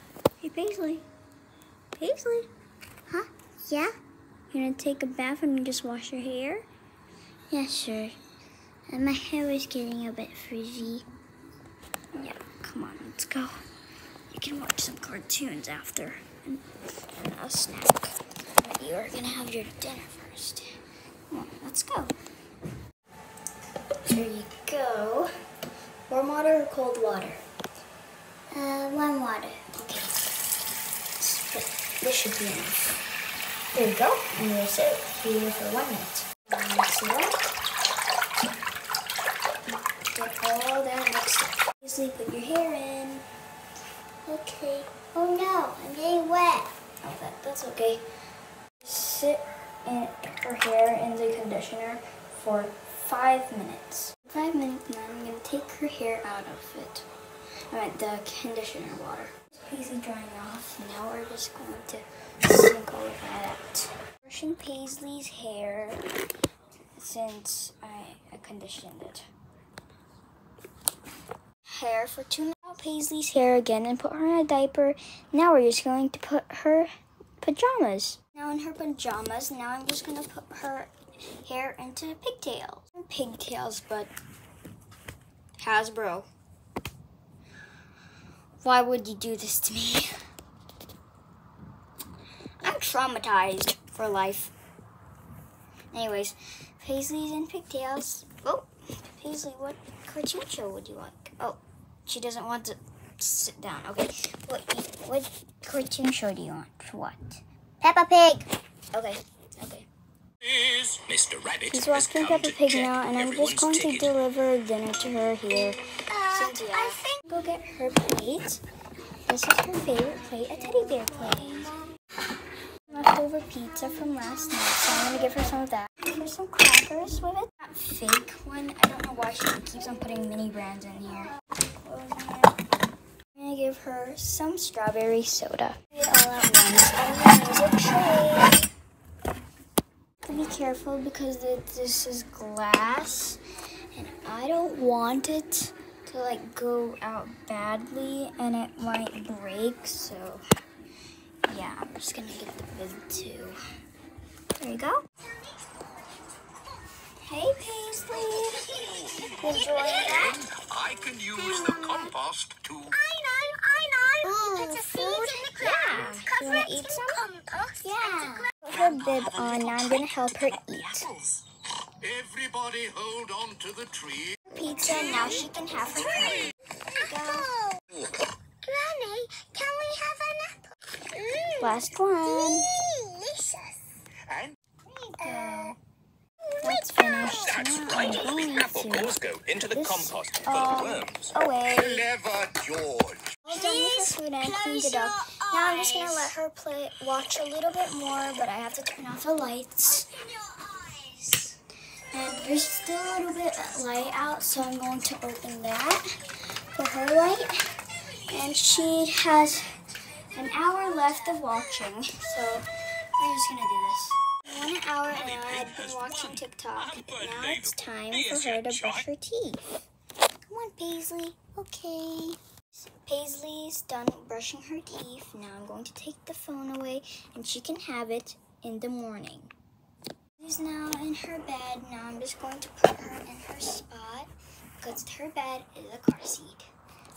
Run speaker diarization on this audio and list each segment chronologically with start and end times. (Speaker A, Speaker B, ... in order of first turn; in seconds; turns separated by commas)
Speaker A: 0.4-1.1, Speaker A: 2.0-2.5, Speaker A: 3.1-3.9, Speaker A: 4.5-6.7, Speaker A: 7.5-8.2, Speaker A: 8.9-11.1, Speaker A: 12.1-13.6, Speaker A: 14.3-20.7, Speaker A: 21.3-22.1, Speaker A: 24.1-25.3, Speaker A: 26.1-27.4, Speaker A: 28.5-30.3, Speaker A: 31.2-33.0, Speaker A: 33.7-37.4, Speaker A: 40.0-43.2, Speaker A: 44.2-48.0, Speaker A: 48.8-57.0, Speaker A: 57.7-66.0, Speaker A: 66.9-69.3, Speaker A: 71.7-84.1, Speaker A: 85.6-86.3, Speaker A: 88.6-90.1, Speaker A: 92.6-94.5, Speaker A: 95.9-109.9, Speaker B: 110.4-114.1, Speaker A: 111.7-118.6, Speaker C: 116.1-117.2, Speaker A: 119.2-121.7, Speaker C: 121.0-121.7, Speaker A: 122.9-132.6, Speaker A: 133.3-138.7, Speaker A: 140.2-143.4, Speaker A: 143.9-150.4, Speaker A: 151.4-153.6, Speaker A: 154.6-155.0, Speaker A: 157.2-160.3, Speaker C: 159.4-160.4, Speaker B: 160.1-163.0, Speaker C: 161.5-162.1, Speaker C: 162.9-168.5, Speaker A: 164.2-167.2, Speaker A: 168.0-171.1, Speaker B: 170.7-171.4, Speaker B: 172.0-174.2, Speaker A: 174.5-177.6, Speaker C: 176.2-177.8, Speaker C: 178.6-181.8, Speaker A: 181.6-182.7, Speaker C: 182.3-183.8, Speaker A: 184.9-185.8, Speaker C: 185.2-185.7, Speaker A: 186.6-189.2, Speaker B: 187.4-193.2, Speaker A: 189.7-192.1, Speaker A: 193.4-200.2, Speaker C: 193.5-193.8, Speaker C: 195.0-196.1, Speaker A: 200.9-201.5, Speaker A: 202.1-209.8, Speaker A: 210.3-212.7, Speaker A: 213.2-219.7, Speaker B: 215.1-219.0, Speaker A: 220.5-229.5, Speaker A: 230.4-234.3, Speaker A: 234.8-236.7